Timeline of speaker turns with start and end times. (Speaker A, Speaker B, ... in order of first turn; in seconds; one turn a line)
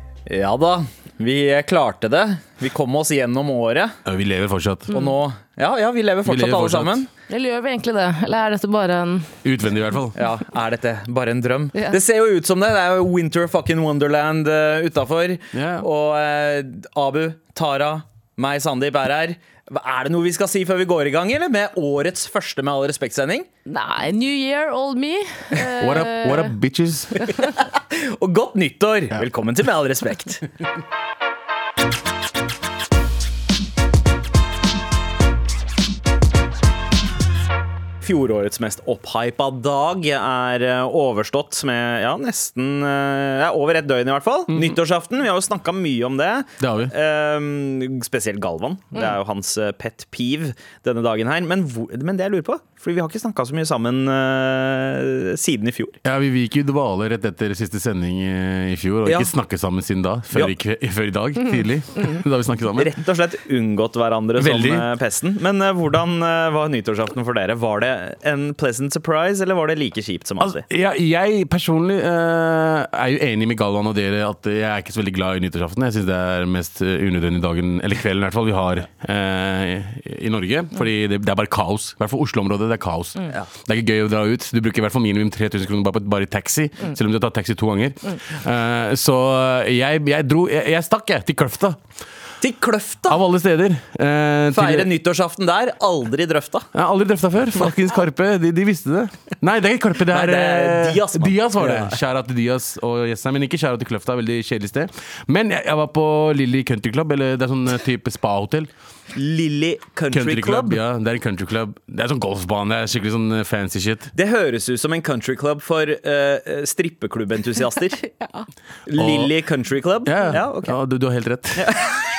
Speaker A: 0.3-3.9
Speaker B: 4.0-4.9
Speaker A: 4.9-7.1
Speaker B: 6.2-7.0
Speaker C: 7.3-9.3
Speaker B: 9.4-10.2
Speaker A: 10.1-23.5
Speaker B: 15.5-15.9
Speaker C: 23.7-26.5
Speaker B: 25.8-27.3
Speaker A: 27.9-30.5
Speaker A: 38.0-56.0
Speaker B: 44.5-44.8
Speaker B: 46.6-46.9
Speaker B: 56.0-62.9
Speaker A: 59.0-59.3
Speaker A: 62.7-70.6
Speaker B: 64.4-64.8
Speaker B: 70.4-91.8
Speaker A: 92.4-93.2
Speaker B: 93.1-94.9
Speaker A: 94.5-96.7
Speaker B: 96.7-108.7
Speaker A: 100.1-102.0
Speaker A: 109.1-110.8
Speaker B: 110.1-114.1
Speaker A: 114.1-118.0
Speaker C: 118.1-118.4
Speaker A: 118.9-120.8
Speaker B: 118.9-119.3
Speaker B: 120.0-121.7
Speaker A: 121.6-122.0